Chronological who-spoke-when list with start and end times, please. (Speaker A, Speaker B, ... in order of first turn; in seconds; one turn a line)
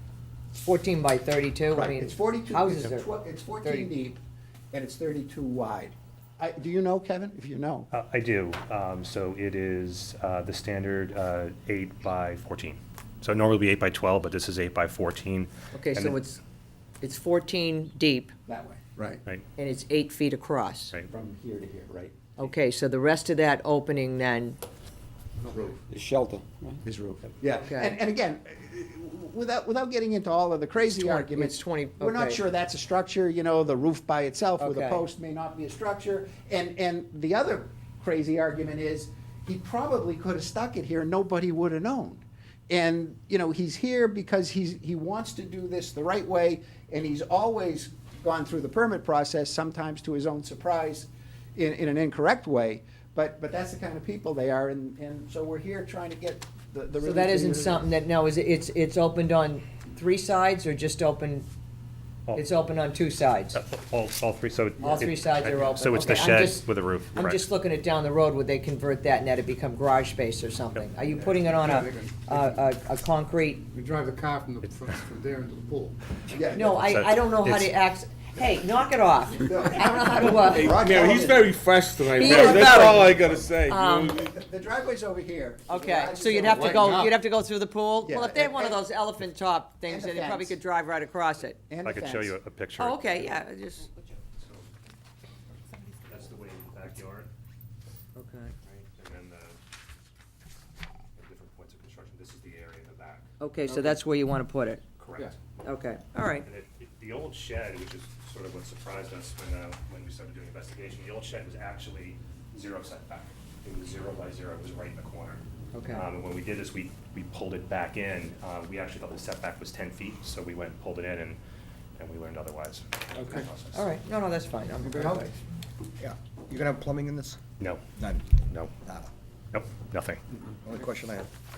Speaker A: 0.6-3.1
Speaker B: 1.7-4.2
Speaker A: 3.6-3.9
Speaker B: 4.7-7.9
Speaker C: 7.9-16.2
Speaker A: 15.7-16.4
Speaker A: 17.0-18.3
Speaker B: 18.5-19.2
Speaker A: 19.6-20.9
Speaker B: 21.1-22.2
Speaker A: 22.4-24.6
Speaker D: 25.9-26.7
Speaker B: 26.9-57.9
Speaker A: 27.7-28.0
Speaker A: 30.9-32.4
Speaker A: 34.6-35.1
Speaker A: 57.0-61.5
Speaker A: 62.4-63.6
Speaker C: 63.5-67.5
Speaker A: 64.8-73.7
Speaker E: 71.4-72.6
Speaker E: 73.7-76.0
Speaker B: 76.3-76.8
Speaker A: 76.5-80.8
Speaker C: 76.6-77.7
Speaker B: 79.4-81.6
Speaker F: 80.4-84.3
Speaker A: 82.2-84.2
Speaker B: 82.2-83.5
Speaker B: 84.1-87.1
Speaker A: 85.7-91.6
Speaker E: 86.5-87.1
Speaker B: 88.0-88.8
Speaker B: 89.9-90.6
Speaker B: 91.7-92.3
Speaker C: 91.8-93.3
Speaker A: 92.8-93.9
Speaker C: 94.4-94.7
Speaker C: 96.0-97.3
Speaker A: 98.2-98.5
Speaker C: 98.7-99.6
Speaker C: 101.2-103.3
Speaker A: 103.4-104.8
Speaker E: 103.7-104.0
Speaker C: 105.0-105.3
Speaker A: 105.6-106.5
Speaker C: 106.4-121.4
Speaker A: 115.7-116.0
Speaker C: 122.0-123.9
Speaker E: 123.2-123.5
Speaker A: 123.7-125.3
Speaker E: 124.8-125.3
Speaker D: 126.0-127.4
Speaker C: 128.4-128.7
Speaker C: 129.5-130.2
Speaker D: 130.8-131.3